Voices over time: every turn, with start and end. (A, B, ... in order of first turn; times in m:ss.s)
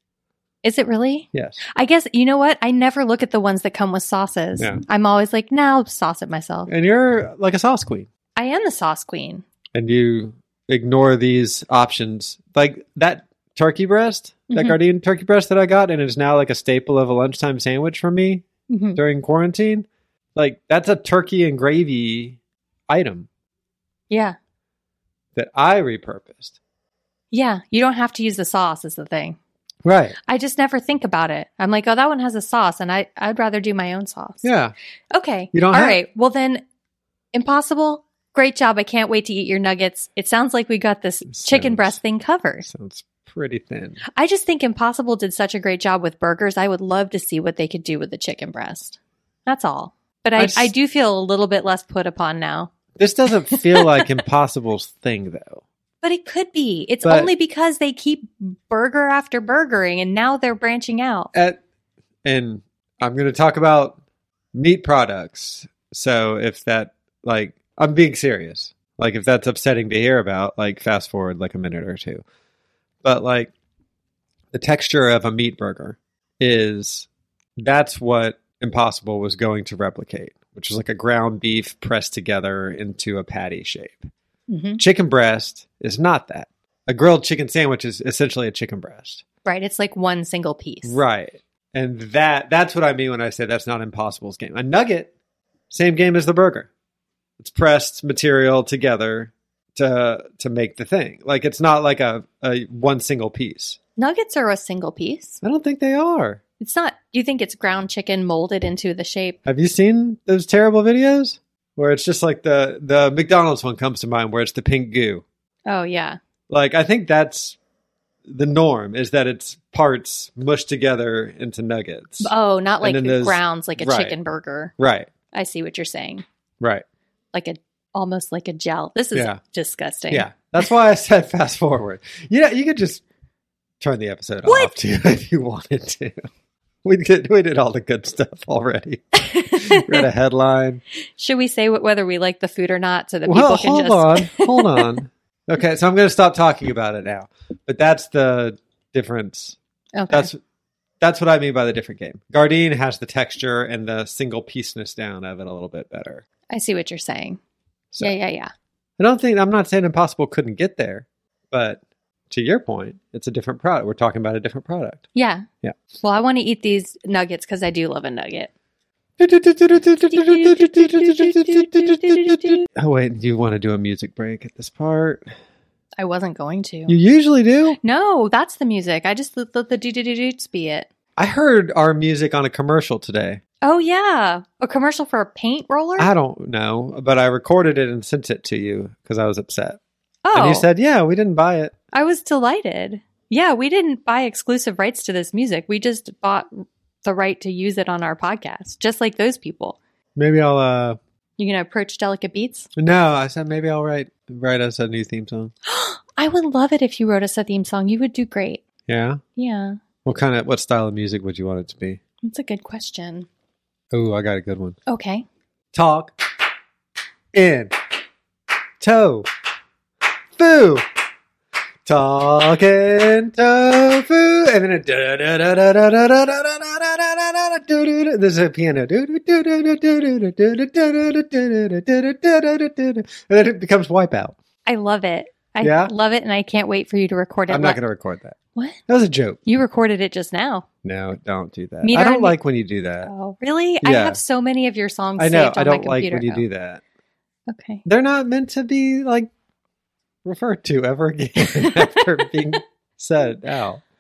0:00.6-0:06.7 A
0:01.3-0:01.6 B
0:04.6-0:04.8 B
0:06.7-0:08.1 B
0:08.4-0:09.4 A
0:09.7-0:18.4 B
0:14.5-0:14.8 A
0:18.7-0:19.0 A
0:19.0-0:22.4 B
0:22.9-0:23.3 B
0:24.1-0:24.4 A
0:25.4-0:26.6 B
0:27.3-0:29.4 A
0:29.8-0:30.2 B
0:30.3-0:34.5 A
0:34.4-0:34.7 B
0:35.2-0:36.6 A
0:35.5-0:36.0 B
0:37.3-0:42.7 A
0:41.3-0:42.0 B
0:42.6-0:44.0 B
0:44.2-0:52.7 A
0:50.4-0:50.7 B
0:53.0-0:55.6 B
0:53.5-0:54.1 A
0:56.0-1:01.3 A
0:57.0-0:57.3 B
1:01.3-1:01.6 B
1:02.2-1:04.0 B
1:04.5-1:12.2 B
1:13.0-1:13.5 B
1:14.5-1:24.1 B
1:24.5-1:24.8 A
1:24.8-1:29.2 B
1:29.4-1:31.0 A
1:30.8-1:35.1 B
1:35.7-1:36.7 B
1:37.4-1:43.8 B
1:44.0-1:45.4 A
1:45.4-1:46.4 B
1:46.6-1:49.4 A
1:49.4-1:55.2 B
1:55.7-1:56.2 A
1:56.5-1:57.6 B
1:58.3-2:04.2 B
2:02.2-2:04.7 A
2:04.8-2:05.1 B
2:05.3-2:06.2 A
2:07.3-2:10.3 A
2:09.1-2:09.4 B
2:10.1-2:13.0 B
2:13.8-2:16.3 B
2:14.4-2:14.7 A
2:16.8-2:20.8 B
2:19.2-2:20.1 A
2:21.2-2:24.9 A
2:23.3-2:29.6 B
2:30.0-2:30.3 A
2:30.1-2:30.4 B
2:31.0-2:36.2 B
2:36.5-2:37.4 A
2:38.0-2:38.5 A
2:39.0-2:45.0 B
2:45.2-2:45.5 A
2:46.0-2:48.5 A
2:49.2-2:55.3 B
2:50.1-2:52.7 A
2:56.0-2:57.0 A
2:56.9-2:57.8 B
2:57.8-3:00.9 A
3:01.2-3:03.4 B
3:03.6-3:06.1 A
3:06.0-3:09.8 B
3:10.3-3:10.7 A
3:10.3-3:11.8 B
3:11.9-3:19.8 A
3:20.2-3:21.0 B
3:21.4-3:22.7 A
3:22.8-3:25.5 B
3:25.7-3:28.6 A
3:28.9-3:29.2 B
3:29.4-3:29.8 A
3:30.0-3:32.0 B
3:32.2-3:33.3 A
3:33.9-3:34.8 B
3:34.9-3:35.2 A
3:35.7-3:36.2 B
3:37.3-3:37.8 B
3:38.8-3:39.3 B
3:40.4-3:40.9 B
3:41.8-3:54.4 B
3:54.7-3:57.8 A
3:55.6-3:55.9 B
3:57.5-3:58.4 B
3:58.9-3:59.4 B
3:59.5-4:00.6 A
4:00.8-4:03.1 B
4:01.8-4:02.4 A
4:03.0-4:06.5 A
4:03.8-4:04.2 B
4:05.2-4:06.8 B
4:07.5-4:07.8 A
4:07.9-4:09.3 B
4:10.2-4:13.8 B
4:11.4-4:12.0 A